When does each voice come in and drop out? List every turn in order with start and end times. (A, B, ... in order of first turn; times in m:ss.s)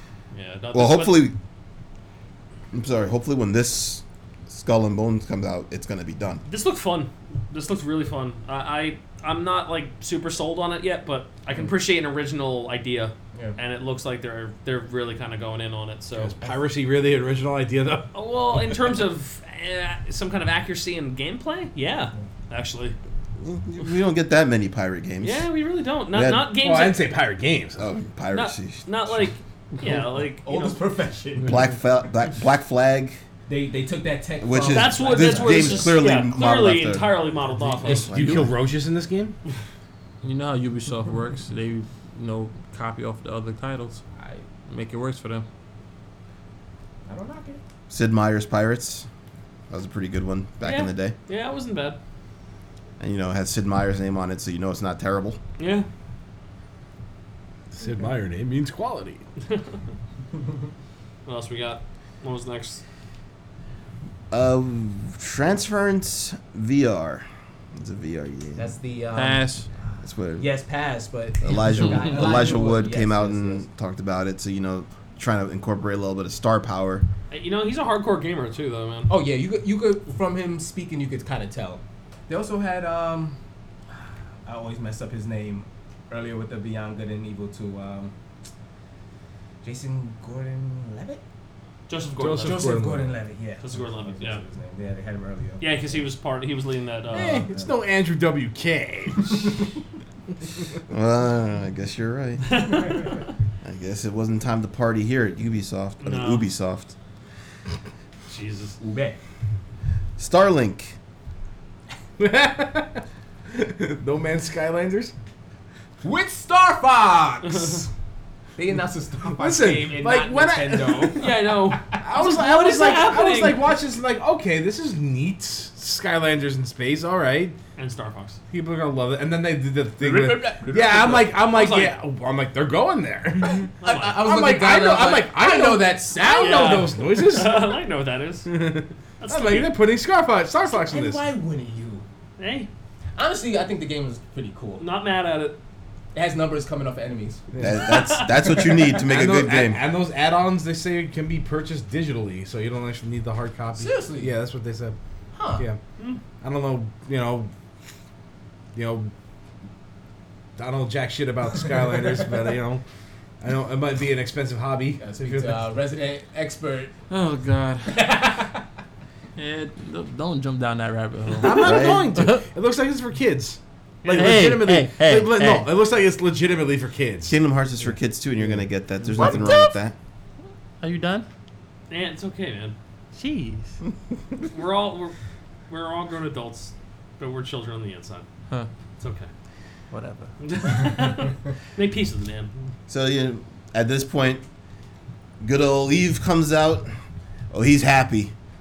0:00.3-0:01.2 A
0:00.7-0:01.3 B
0:02.7-0:06.4 B
0:06.4-0:16.4 A
0:16.1-0:18.2 C
0:18.1-0:23.0 A
0:23.4-0:25.4 B
0:25.2-0:27.0 A
0:26.1-0:26.5 B
0:26.6-0:27.8 C
0:27.8-0:29.3 B
0:28.3-0:30.8 A
0:29.9-0:31.6 D
0:31.4-0:33.2 B
0:33.5-0:36.0 D
0:34.4-0:38.5 B
0:34.6-0:38.2 A
0:37.8-0:39.3 C
0:40.2-0:44.0 E
0:44.2-0:44.4 D
0:44.7-0:45.4 E
0:47.1-0:47.6 D
0:47.9-0:49.1 B
0:49.7-0:51.1 B
0:50.6-0:52.0 A
0:53.0-0:55.4 B
0:55.6-0:55.9 A
0:57.7-0:59.2 C
1:01.2-1:02.8 A
1:04.3-1:08.7 B
1:08.6-1:09.6 D
1:09.1-1:09.7 E
1:10.0-1:10.5 B
1:10.4-1:13.6 D
1:11.4-1:17.0 B
1:17.3-1:19.1 A
1:19.1-1:23.4 D
1:24.4-1:28.1 D
1:29.6-1:31.2 D
1:31.9-1:32.8 A
1:32.2-1:33.1 C
1:32.4-1:36.0 D
1:33.6-1:34.4 A
1:35.6-1:37.4 A
1:37.1-1:37.7 D
1:37.1-1:39.6 C
1:40.9-1:42.6 B
1:42.5-1:42.9 A
1:43.6-1:46.9 B
1:46.0-1:46.4 A
1:48.3-1:48.8 A
1:48.8-1:49.2 D
1:50.2-1:51.0 B
1:52.2-1:55.1 C
1:56.0-1:57.9 D
1:58.6-2:02.0 D
1:59.2-2:01.3 C
2:01.2-2:03.7 A
2:02.0-2:07.6 C
2:07.8-2:08.4 A
2:08.5-2:17.7 C
2:10.0-2:11.4 D
2:11.3-2:12.0 A
2:13.8-2:14.3 A
2:13.8-2:17.0 D
2:16.2-2:18.7 A
2:18.4-2:21.2 C
2:19.2-2:19.7 A
2:20.7-2:22.0 D
2:22.4-2:22.7 A
2:23.2-2:24.8 D
2:24.8-2:25.6 A
2:26.1-2:27.5 D
2:27.5-2:27.9 C
2:27.6-2:29.8 B
2:27.9-2:28.7 A
2:28.4-2:29.0 D
2:29.0-2:35.0 C
2:33.8-2:34.3 D
2:35.3-2:35.6 D
2:36.4-2:37.5 C
2:38.7-2:39.1 C
2:40.6-2:42.8 C
2:43.4-2:45.6 C
2:45.0-2:46.9 D
2:47.1-2:48.1 E
2:47.9-2:48.6 D
2:49.4-2:52.4 E
2:51.4-2:57.4 C
2:51.6-2:52.1 B
2:54.0-2:54.5 A
2:54.1-2:55.7 E
2:57.3-2:59.9 B
2:59.1-2:59.7 E
2:59.2-2:59.5 C
3:00.8-3:01.2 E
3:01.9-3:02.7 A
3:03.1-3:03.8 E
3:04.5-3:05.1 A
3:05.7-3:08.2 A
3:09.0-3:09.3 A
3:09.9-3:10.3 E
3:10.4-3:12.5 A
3:12.9-3:14.4 B
3:15.4-3:16.9 B
3:17.5-3:18.3 B